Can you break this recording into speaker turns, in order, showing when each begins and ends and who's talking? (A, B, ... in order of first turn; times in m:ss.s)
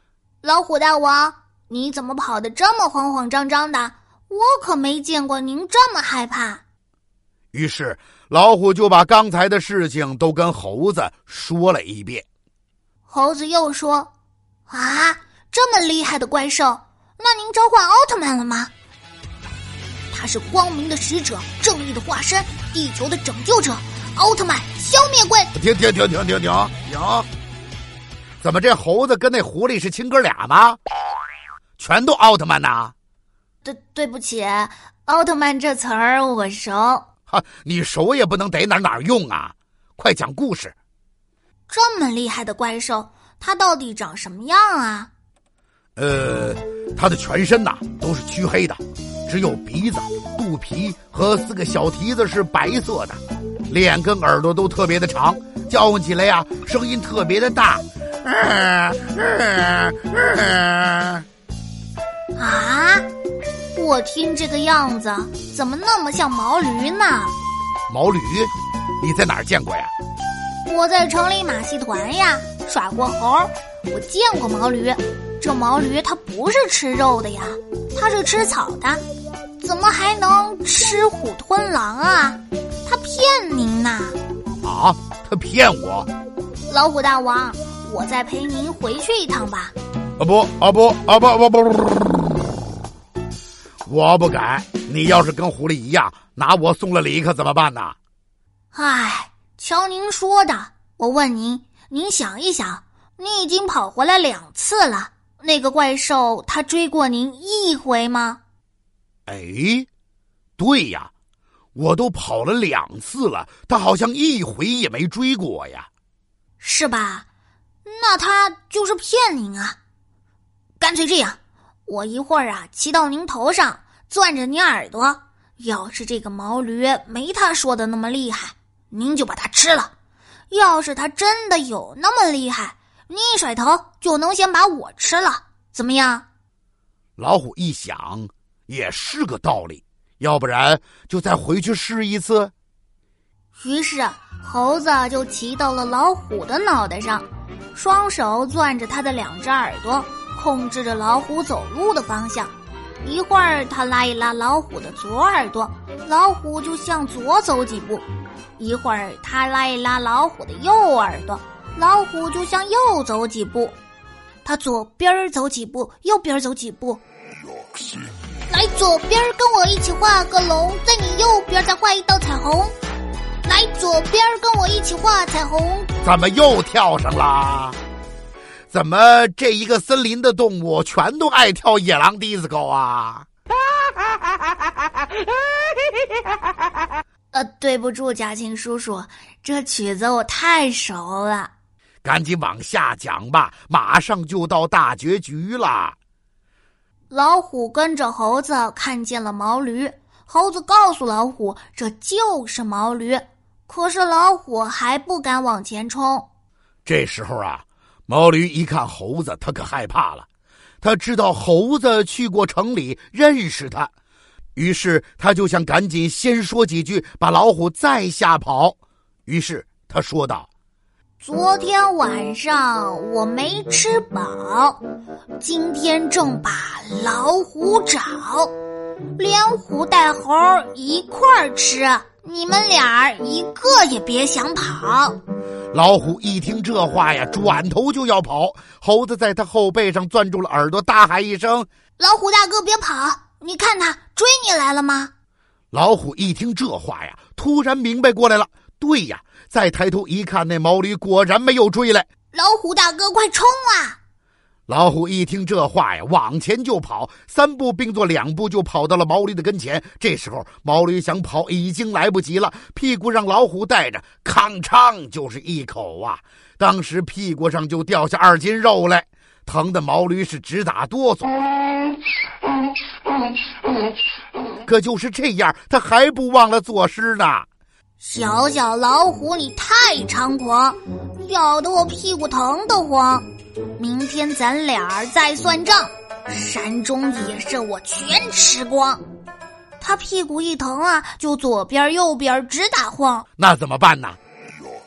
0:00.4-0:06.6 A
0:07.5-0:12.2 B
0:13.1-0:14.1 A
0:14.7-0:18.7 A
0:20.1-0:25.5 A
0:25.5-0:27.3 B
0:28.4-0:30.8 B
0:31.8-0:32.9 B
0:33.6-0:37.1 A
0:37.3-0:40.8 B
0:41.7-0:45.1 A
0:46.0-1:01.2 B
1:02.4-1:03.1 A
1:03.8-1:07.4 A
1:07.9-1:09.9 B
1:10.7-1:19.0 A
1:19.6-1:24.2 A
1:24.6-1:26.1 B
1:26.7-1:29.7 A
1:30.2-1:32.3 B
1:33.9-1:38.0 B
1:38.7-1:48.4 A
1:49.3-1:49.9 B
1:50.6-1:51.1 B
1:51.8-1:55.9 B
1:56.6-1:57.3 A
1:57.8-1:59.8 A
2:00.8-2:09.9 A
2:10.5-2:16.3 A
2:17.2-2:22.5 B
2:23.6-2:38.1 A
2:38.6-2:43.8 A
2:44.4-2:47.0 A
2:48.5-2:52.8 A
2:53.4-2:55.9 A
2:56.0-2:57.8 B
2:58.7-3:03.3 B
3:07.3-3:11.5 A
3:12.0-3:16.0 B
3:17.1-3:26.3 A
3:26.8-3:30.3 B
3:30.8-3:33.9 B
3:34.6-3:40.5 B
3:41.2-3:44.8 A
3:45.4-3:48.6 A
3:49.2-3:55.2 A
3:55.7-4:01.7 B
4:02.0-4:05.1 A
4:05.7-4:12.1 B
4:12.3-4:14.0 A
4:14.7-4:31.4 B
4:34.6-4:37.5 B
4:38.0-4:43.3 A
4:43.8-4:49.0 A
4:49.8-4:53.3 A
4:53.4-4:54.2 B